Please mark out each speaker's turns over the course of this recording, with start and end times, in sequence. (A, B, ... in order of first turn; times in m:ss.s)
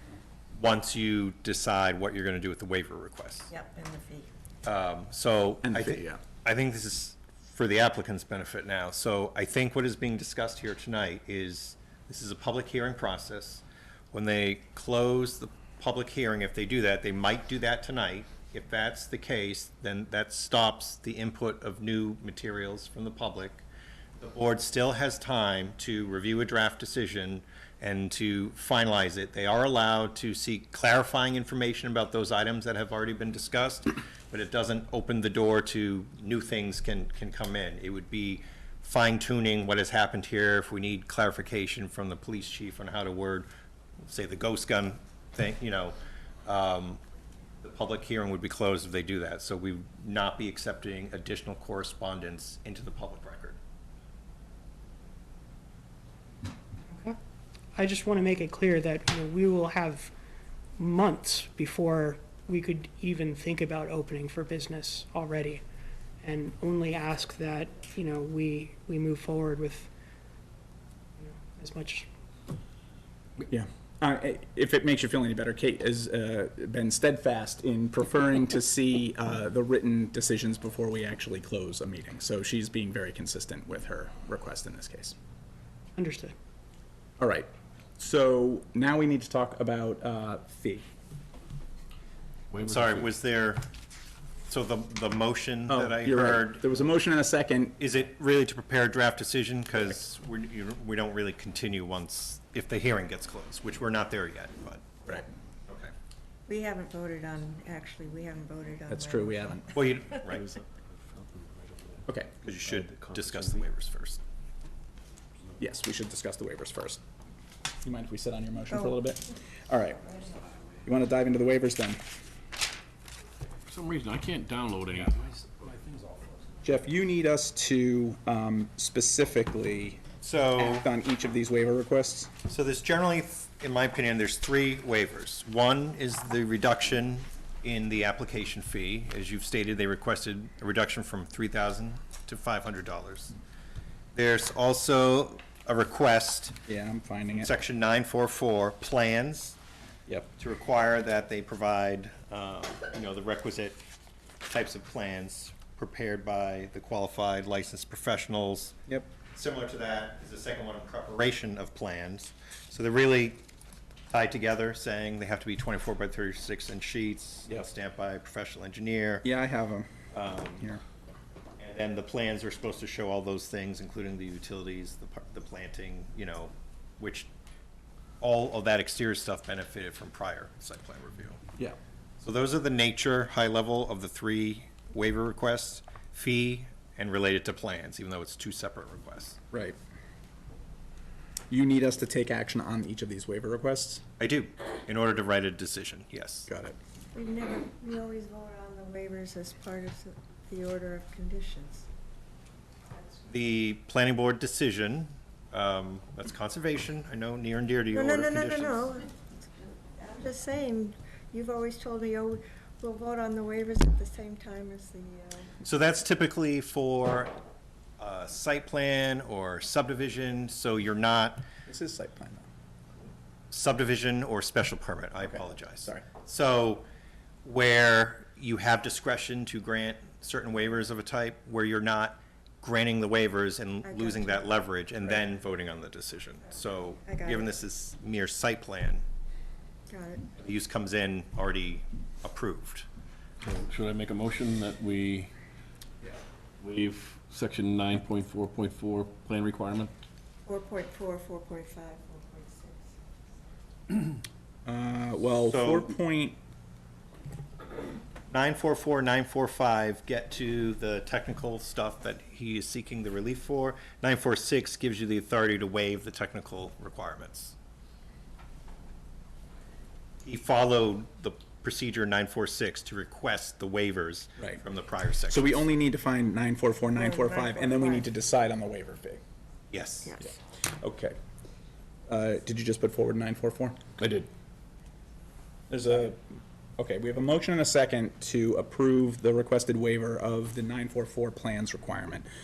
0:00.5-0:03.5 A
0:03.5-0:04.3 B
0:04.6-0:23.6 A
0:05.6-0:06.2 C
0:24.2-0:43.5 A
0:44.0-0:47.0 A
0:47.6-0:53.6 A
0:56.9-0:57.2 D
0:57.7-1:00.1 D
1:00.8-1:05.6 D
1:06.2-1:09.9 D
1:11.2-1:12.1 D
1:13.5-1:25.1 C
1:26.0-1:26.3 D
1:27.2-1:30.8 C
1:32.5-1:33.1 E
1:32.6-1:33.7 A
1:34.5-1:36.8 A
1:35.7-1:37.8 C
1:37.8-1:45.0 A
1:46.5-1:50.0 B
1:48.9-1:49.8 C
1:49.7-1:50.5 A
1:51.6-1:52.0 E
1:52.1-1:52.3 C
1:52.4-1:54.2 A
1:52.7-1:53.6 E
1:55.6-1:57.0 C
1:57.8-2:00.1 C
2:00.8-2:02.0 C
2:03.7-2:06.2 E
2:06.6-2:12.3 C
2:10.2-2:10.9 A
2:12.5-2:23.3 A
2:24.1-2:26.6 A
2:26.7-2:27.5 C
2:27.4-2:29.6 A
2:30.4-2:33.8 A
2:34.5-2:38.8 A
2:39.3-2:43.4 A
2:44.1-2:49.2 A
2:49.2-2:49.9 C
2:50.1-2:50.6 A
2:51.6-2:57.3 A
2:58.2-3:01.4 A
3:02.2-3:09.4 A
3:11.5-3:14.0 C
3:14.2-3:16.5 A
3:16.5-3:16.8 C
3:17.1-3:21.8 B
3:23.2-3:28.9 A
3:27.9-3:35.5 B
3:35.6-3:37.3 A
3:38.0-3:41.4 A
3:41.6-3:42.4 C
3:43.5-3:46.8 A
3:45.2-3:46.0 C
3:47.4-3:59.0 A
3:53.8-3:54.5 B
3:57.1-3:57.4 B
3:59.9-4:00.3 B
4:00.4-4:02.9 A
4:03.4-4:05.3 E
4:06.6-4:09.9 E
4:10.4-4:12.9 B
4:14.6-4:16.4 C
4:15.5-4:15.9 A
4:18.3-4:27.5 A
4:30.2-4:35.6 A
4:35.3-4:39.2 C
4:36.9-4:38.1 B
4:39.7-4:40.2 A
4:40.3-4:41.2 C
4:42.1-4:44.3 C
4:45.7-4:46.2 C
4:46.8-4:52.3 C